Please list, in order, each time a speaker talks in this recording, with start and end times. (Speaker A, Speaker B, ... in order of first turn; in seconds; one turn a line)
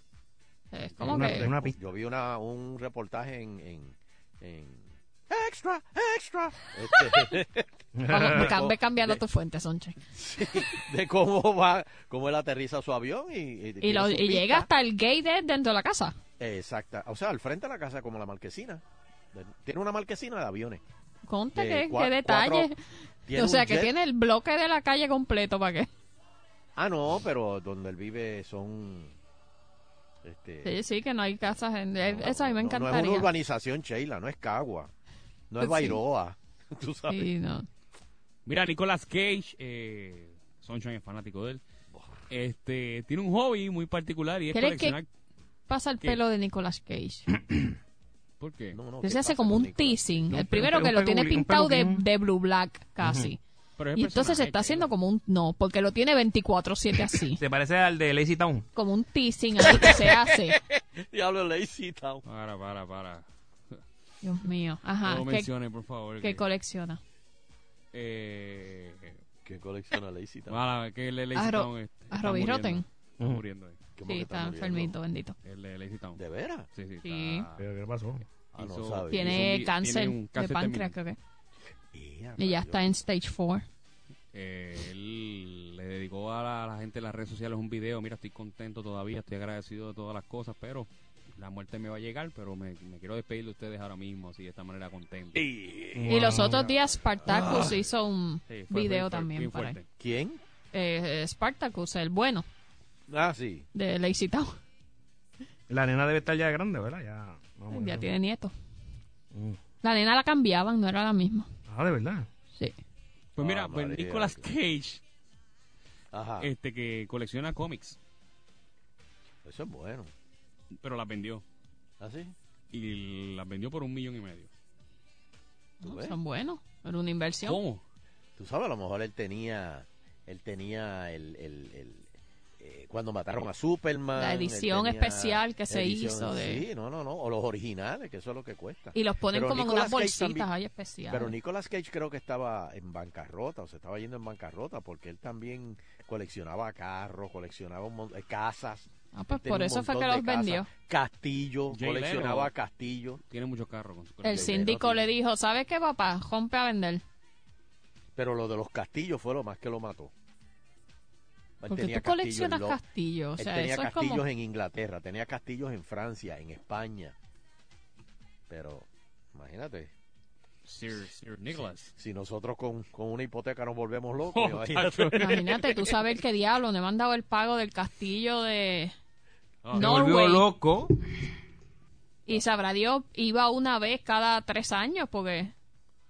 Speaker A: 0.7-1.5
Speaker B: 1.0-7.7
Speaker C: 1.0-1.8
Speaker C: 8.0-8.5
Speaker A: 8.1-10.0
Speaker B: 8.2-9.2
Speaker B: 10.1-14.7
Speaker A: 13.8-16.2
Speaker B: 16.4-20.8
Speaker A: 21.2-22.8
Speaker B: 21.5-22.7
Speaker B: 23.2-23.9
Speaker A: 23.3-25.9
Speaker B: 26.8-29.1
Speaker B: 30.2-30.7
Speaker A: 30.6-33.3
Speaker B: 32.0-34.9
Speaker B: 35.5-37.3
Speaker A: 35.6-36.0
Speaker A: 37.1-37.7
Speaker D: 38.5-41.6
Speaker B: 41.9-42.2
Speaker D: 42.3-45.1
Speaker A: 44.5-45.0
Speaker A: 45.7-47.3
Speaker D: 48.4-48.8
Speaker B: 48.7-50.3
Speaker A: 49.0-53.4
Speaker C: 50.3-52.0
Speaker C: 53.0-53.3
Speaker D: 53.8-54.9
Speaker A: 54.0-57.4
Speaker C: 57.4-58.7
Speaker A: 58.8-60.6
Speaker B: 59.7-62.2
Speaker D: 62.2-63.8
Speaker A: 64.2-65.5
Speaker D: 65.0-66.4
Speaker A: 66.2-67.0
Speaker D: 67.9-69.2
Speaker B: 69.4-70.6
Speaker D: 70.5-73.8
Speaker A: 71.3-72.8
Speaker B: 74.0-74.9
Speaker A: 74.0-75.3
Speaker D: 75.4-76.2
Speaker B: 76.2-76.7
Speaker D: 76.7-77.6
Speaker A: 77.0-77.5
Speaker C: 77.6-78.2
Speaker B: 78.5-79.5
Speaker D: 78.5-80.9
Speaker A: 79.1-81.2
Speaker B: 81.9-83.0
Speaker A: 82.4-83.7
Speaker D: 84.3-95.5
Speaker B: 95.3-96.4
Speaker C: 95.9-96.7
Speaker A: 96.1-99.8
Speaker B: 97.0-97.7
Speaker C: 97.3-97.6
Speaker D: 98.5-99.9
Speaker B: 100.0-100.4
Speaker A: 100.7-102.5
Speaker B: 103.1-103.7
Speaker A: 103.7-104.6
Speaker C: 105.7-108.1
Speaker A: 107.7-108.5
Speaker C: 109.3-109.6
Speaker A: 109.8-111.5
Speaker C: 111.7-112.3
Speaker D: 113.3-115.0
Speaker B: 113.4-114.5
Speaker B: 116.1-116.5
Speaker D: 116.4-118.0
Speaker B: 119.4-120.1
Speaker D: 120.8-121.4
Speaker B: 122.0-122.3
Speaker D: 122.7-124.5
Speaker B: 125.8-126.2
Speaker A: 125.8-127.6
Speaker D: 127.4-127.8
Speaker B: 128.4-140.5
Speaker A: 134.2-136.6
Speaker A: 138.9-141.3
Speaker B: 141.1-153.2
Speaker A: 149.1-150.7
Speaker D: 151.7-152.5
Speaker D: 153.3-154.9
Speaker A: 154.2-157.0
Speaker B: 154.3-155.0
Speaker B: 158.2-160.1
Speaker B: 161.6-162.8
Speaker A: 161.7-164.2
Speaker B: 163.4-167.1
Speaker B: 168.5-169.9
Speaker D: 170.6-171.9
Speaker B: 171.9-175.3
Speaker D: 174.3-175.4
Speaker A: 175.2-178.9
Speaker D: 179.6-179.9
Speaker C: 179.7-180.9
Speaker A: 179.7-180.4
Speaker A: 182.2-185.5